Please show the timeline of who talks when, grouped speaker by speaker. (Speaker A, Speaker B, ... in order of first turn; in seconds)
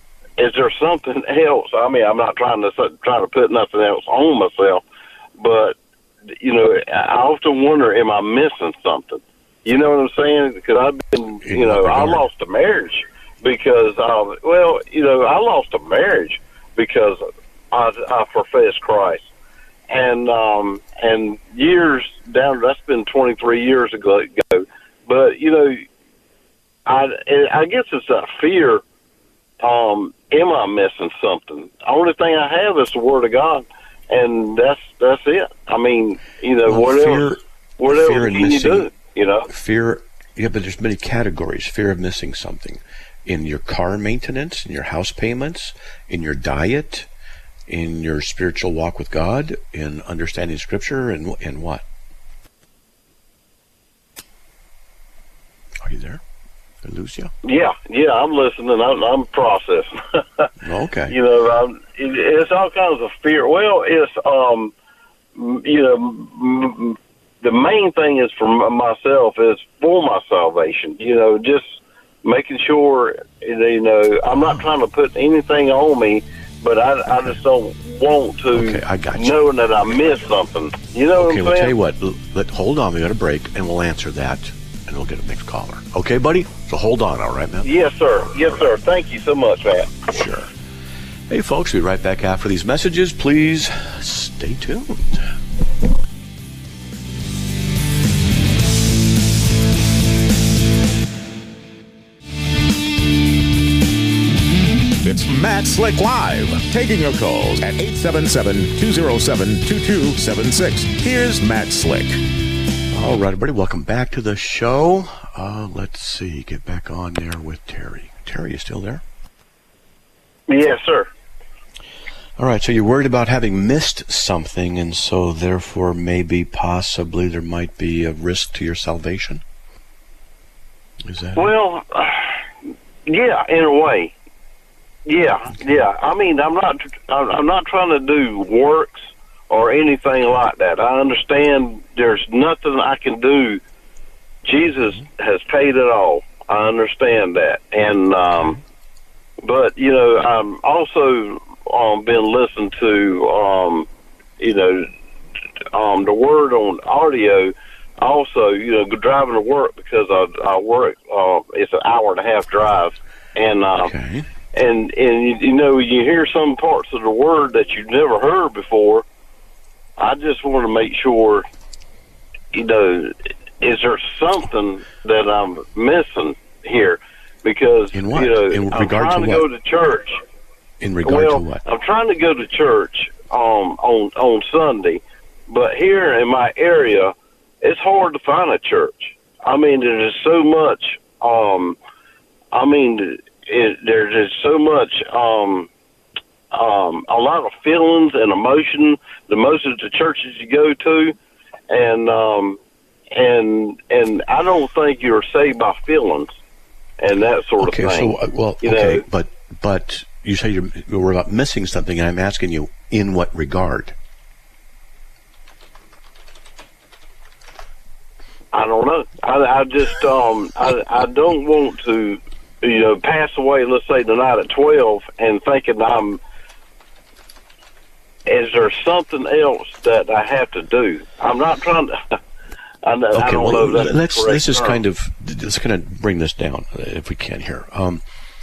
Speaker A: 0.4-4.8, 5.4-5.8, 6.4-19.3, 19.9-25.8, 26.9-28.8, 29.6-39.5, 57.4-60.5, 61.1-64.7, 65.3-71.7, 72.2-81.7, 87.6-90.1, 120.5-121.1, 131.3-132.4, 133.1-134.1, 135.1-143.6, 144.4-148.6, 149.4-153.9, 154.4-154.9, 155.7-163.9, 164.5-169.0, 170.0-171.4, 172.5-180.2, 181.0-191.8, 192.5-195.7, 196.5-201.2, 201.7-202.6, 203.1-206.3, 207.0-209.0, 218.5-226.2, 228.3-232.2, 232.8-234.8
Speaker B: 11.4-12.2, 36.6-38.9, 39.5-47.1, 47.7-51.8, 55.8-56.2, 56.8-57.3, 60.6-61.2, 78.5-79.4, 81.2-87.7, 90.0-90.5, 91.3-95.3, 112.9-119.0, 122.4-129.4, 131.0-131.5, 163.8-164.3, 177.9-179.4, 180.8-181.6, 207.6-213.9, 233.1-238.0
Speaker C: 105.0-112.2